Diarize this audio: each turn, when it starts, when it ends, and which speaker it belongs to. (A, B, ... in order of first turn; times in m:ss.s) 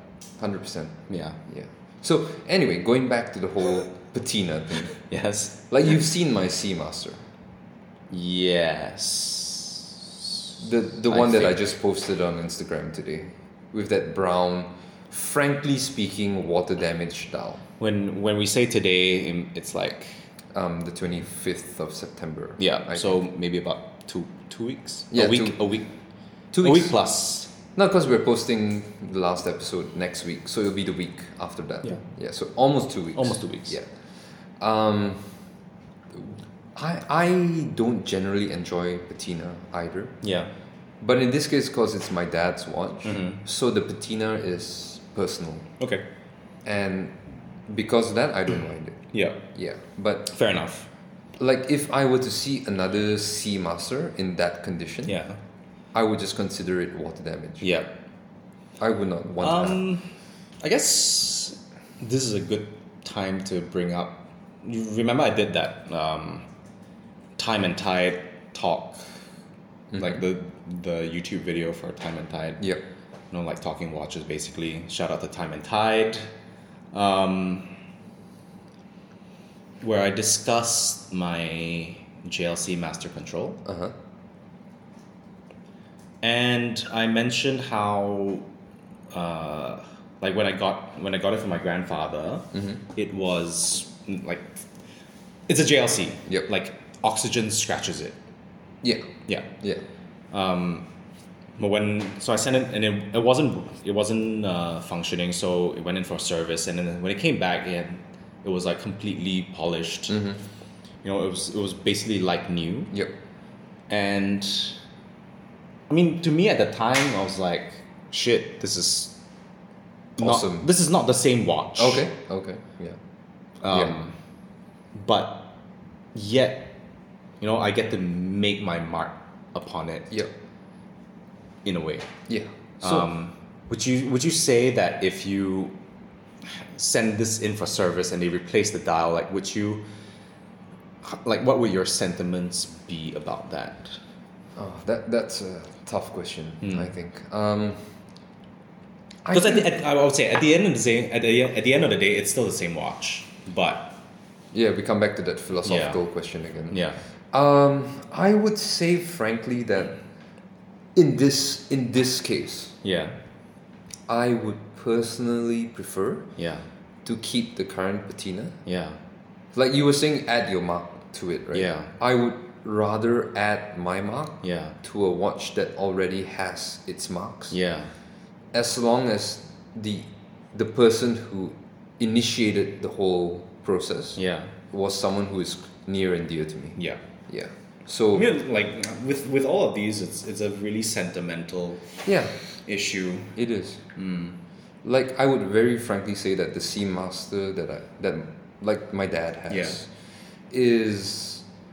0:00.4-0:05.0 A
0:01.1-0:01.4 B
0:05.0-0:05.6 B
0:05.7-0:07.2 A
0:08.1-0:10.5 B
0:10.6-0:17.6 A
0:11.1-0:11.6 B
0:17.8-0:20.2 B
0:20.5-0:23.2 A
0:22.6-0:25.9 B
0:25.1-0:25.6 A
0:26.5-0:26.9 A
0:26.6-0:27.5 B
0:27.8-0:33.9 A
0:33.2-0:33.8 B
0:34.6-0:35.3 A
0:36.1-0:40.2 A
0:40.2-0:40.5 B
0:41.0-0:45.7 A
0:43.0-0:43.4 B
0:46.6-0:50.3 A
0:49.1-0:49.4 B
0:50.3-0:50.9 B
0:51.4-0:55.2 A
0:55.1-0:55.4 B
0:55.9-0:57.7 A
0:57.6-0:57.9 B
0:58.8-0:59.8 A
0:59.4-1:00.1 B
1:00.6-1:06.5 B
1:07.4-1:09.0 B
1:09.9-1:10.2 A
1:10.0-1:12.6 B
1:13.3-1:16.2 B
1:16.9-1:17.7 B
1:19.8-1:23.6 B
1:23.6-1:24.0 A
1:26.2-1:28.5 B
1:29.1-1:34.6 B
1:32.5-1:32.8 A
1:35.5-1:38.2 B
1:38.8-1:39.1 A
1:40.3-1:40.9 B
1:41.6-1:50.2 B
1:50.1-1:50.4 A
1:51.0-1:52.9 B
1:53.9-1:54.8 B
1:55.9-1:59.2 B
2:00.2-2:02.1 B
2:00.2-2:00.7 A
2:01.8-2:03.0 A
2:03.6-2:04.2 B
2:03.7-2:04.0 A
2:04.9-2:05.5 B
2:06.2-2:06.7 B
2:07.4-2:10.2 B
2:11.6-2:12.1 B
2:12.3-2:13.1 A
2:12.8-2:15.8 B
2:16.4-2:19.8 B
2:21.0-2:24.0 B
2:24.6-2:27.9 A
2:26.6-2:26.9 B
2:29.2-2:29.7 A
2:29.3-2:34.0 B
2:34.5-2:40.0 A
2:35.6-2:36.0 B
2:36.7-2:37.0 B
2:41.0-2:42.8 A
2:42.8-2:43.2 B
2:44.1-2:46.3 A
2:46.4-2:46.7 B
2:47.0-2:48.6 A
2:48.7-2:49.0 B
2:49.5-2:57.6 A
2:51.5-2:51.9 B
2:54.4-2:54.8 B
2:57.5-2:57.9 B
2:58.5-3:08.3 A
3:04.2-3:04.5 B
3:08.1-3:12.0 B
3:12.0-3:12.4 A
3:12.7-3:13.4 B
3:13.4-3:13.8 A
3:14.0-3:14.4 B
3:14.8-3:19.9 A
3:19.5-3:19.8 B
3:20.5-3:21.4 A